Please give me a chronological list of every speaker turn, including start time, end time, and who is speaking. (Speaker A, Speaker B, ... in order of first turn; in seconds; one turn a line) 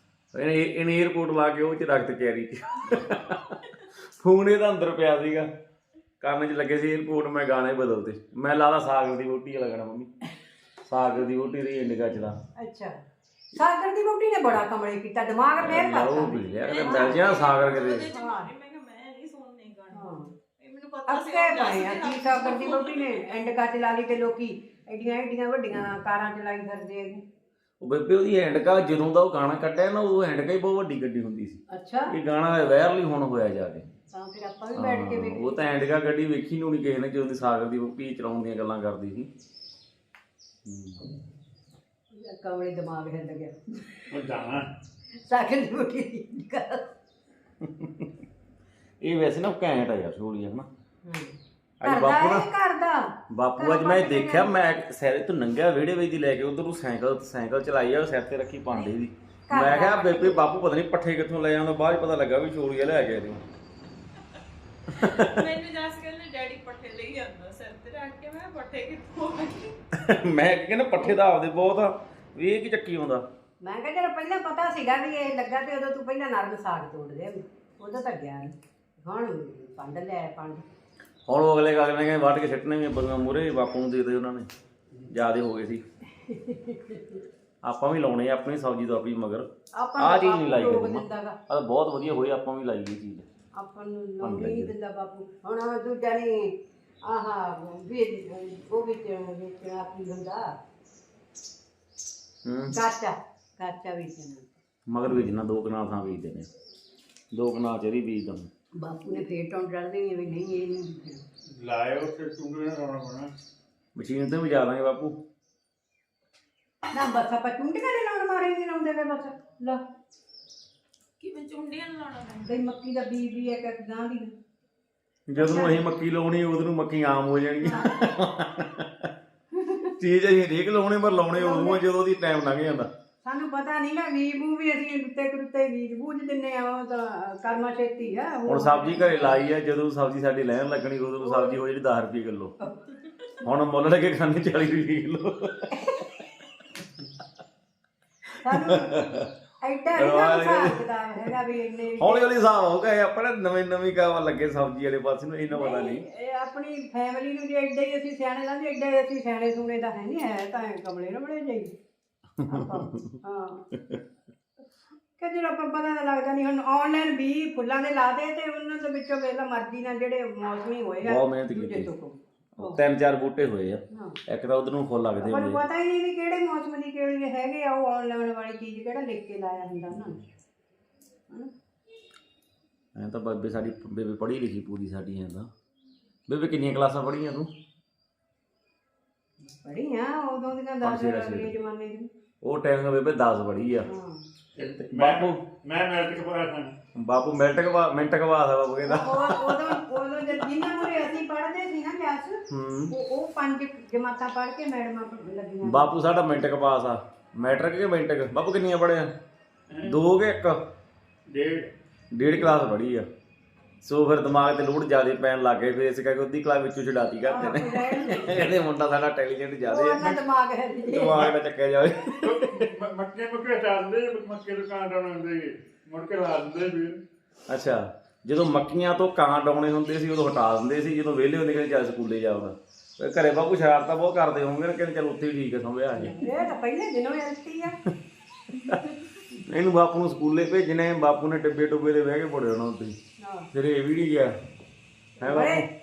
Speaker A: 0.3-3.4
Speaker A: 4.1-5.5
Speaker A: 6.2-10.1
Speaker A: 10.8-12.4
Speaker B: 12.6-12.9
Speaker B: 13.6-17.2
Speaker A: 15.6-18.1
Speaker C: 16.5-23.2
Speaker B: 18.1-18.5
Speaker B: 19.9-20.3
Speaker B: 21.1-27.2
Speaker A: 27.8-33.8
Speaker B: 31.7-32.1
Speaker B: 34.1-35.6
Speaker A: 34.8-39.3
Speaker A: 40.6-41.0
Speaker B: 42.1-43.9
Speaker D: 44.1-44.7
Speaker B: 45.3-46.9
Speaker A: 47.6-48.1
Speaker A: 49.0-50.7
Speaker B: 51.0-53.0
Speaker A: 51.8-52.5
Speaker A: 53.3-63.4
Speaker B: 53.6-54.5
Speaker B: 59.5-60.4
Speaker C: 64.9-69.8
Speaker A: 65.0-65.4
Speaker A: 69.9-73.2
Speaker B: 73.6-80.6
Speaker A: 81.3-84.5
Speaker A: 85.1-85.8
Speaker B: 86.2-87.2
Speaker A: 87.6-93.2
Speaker B: 89.8-91.4
Speaker B: 93.5-100.5
Speaker A: 94.2-94.7
Speaker A: 102.4-102.8
Speaker B: 102.7-104.5
Speaker A: 104.9-106.5
Speaker A: 107.3-108.5
Speaker B: 108.8-111.2
Speaker D: 111.5-113.3
Speaker A: 113.9-115.2
Speaker B: 116.9-119.8
Speaker C: 121.2-122.7
Speaker B: 122.5-124.3
Speaker A: 125.3-129.1
Speaker B: 125.3-125.8
Speaker A: 130.0-132.9
Speaker B: 131.3-131.8
Speaker B: 133.2-139.4
Speaker A: 138.5-142.5
Speaker B: 141.2-141.6
Speaker A: 143.4-145.8
Speaker A: 148.3-149.3
Speaker B: 148.4-149.0
Speaker B: 149.6-152.3
Speaker A: 149.9-150.8
Speaker A: 152.0-156.0
Speaker B: 155.5-161.7
Speaker A: 162.4-163.2
Speaker B: 162.5-163.6
Speaker B: 165.2-172.8
Speaker A: 171.0-171.9
Speaker A: 172.6-175.6
Speaker B: 175.2-180.2
Speaker A: 182.9-185.5
Speaker A: 186.3-187.5
Speaker B: 189.6-192.1
Speaker A: 190.8-191.5
Speaker A: 192.4-193.9
Speaker B: 193.8-194.2
Speaker A: 194.6-195.4
Speaker D: 194.6-196.8
Speaker A: 196.9-199.8
Speaker B: 198.8-202.4
Speaker A: 202.5-202.9
Speaker B: 202.9-205.9
Speaker A: 205.6-209.1
Speaker D: 209.7-210.0
Speaker A: 209.8-210.6
Speaker D: 211.3-211.7
Speaker A: 212.1-213.1
Speaker A: 213.8-220.2
Speaker B: 217.3-218.5
Speaker B: 219.7-221.2
Speaker A: 220.9-222.6
Speaker D: 222.2-227.0
Speaker A: 227.5-236.2
Speaker B: 236.0-237.8
Speaker A: 238.5-238.8
Speaker A: 239.3-242.9
Speaker A: 243.5-244.3
Speaker A: 245.2-245.6
Speaker B: 245.2-245.6